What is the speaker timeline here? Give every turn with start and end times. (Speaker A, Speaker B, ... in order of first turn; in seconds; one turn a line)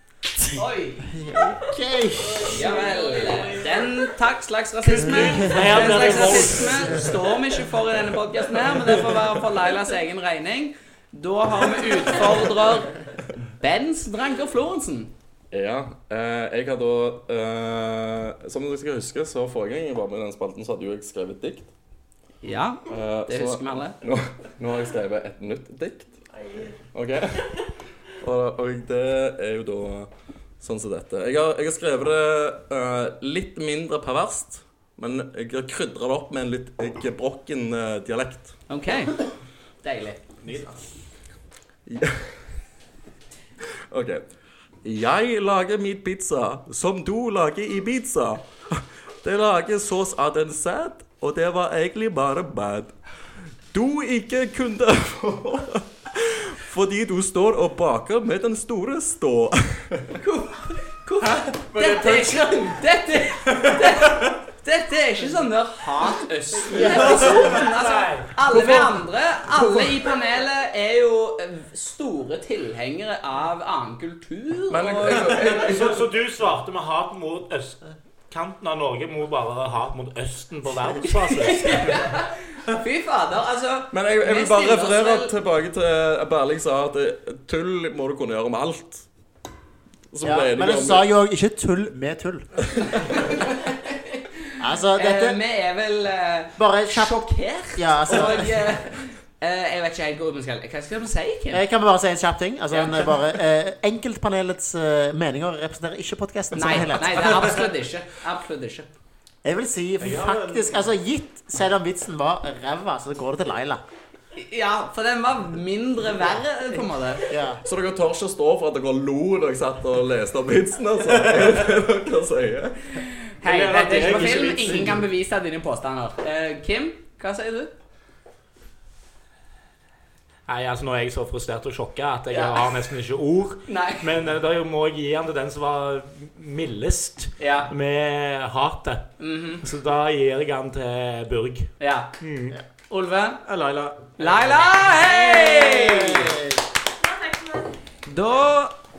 Speaker A: 0.4-2.8
Speaker B: 0.5-1.1
Speaker B: 2.5-15.1
Speaker C: 2.6-3.4
Speaker A: 4.9-7.0
Speaker C: 5.0-7.0
Speaker D: 15.5-21.7
Speaker B: 22.4-24.0
Speaker D: 22.9-26.2
Speaker D: 26.9-27.6
Speaker D: 28.2-38.5
Speaker B: 38.7-39.2
Speaker B: 39.8-40.2
Speaker E: 40.4-40.8
Speaker D: 41.9-42.3
Speaker D: 43.9-44.2
Speaker D: 44.8-53.0
Speaker D: 53.7-60.0
Speaker B: 60.2-76.0
Speaker E: 61.6-62.7
Speaker E: 63.5-64.2
Speaker E: 66.6-67.7
Speaker C: 66.8-68.3
Speaker D: 68.5-68.9
Speaker D: 74.7-76.0
Speaker C: 75.5-82.2
Speaker B: 81.1-85.3
Speaker D: 83.9-89.1
Speaker D: 90.1-91.1
Speaker A: 90.2-92.7
Speaker B: 92.9-94.2
Speaker A: 94.6-95.4
Speaker B: 95.0-101.6
Speaker A: 96.6-97.2
Speaker A: 97.8-98.6
Speaker A: 101.5-107.6
Speaker B: 102.7-103.1
Speaker B: 106.5-108.9
Speaker A: 109.4-113.8
Speaker C: 110.1-110.7
Speaker B: 114.4-117.3
Speaker A: 117.3-117.6
Speaker D: 117.6-123.0
Speaker B: 123.3-127.7
Speaker C: 123.4-125.0
Speaker E: 123.8-125.0
Speaker C: 130.5-142.6
Speaker B: 132.3-132.7
Speaker B: 133.7-134.1
Speaker B: 137.4-137.7
Speaker B: 139.2-139.7
Speaker B: 141.8-142.2
Speaker B: 142.9-143.4
Speaker E: 143.4-144.6
Speaker B: 144.2-146.4
Speaker A: 145.0-146.6
Speaker B: 148.1-148.8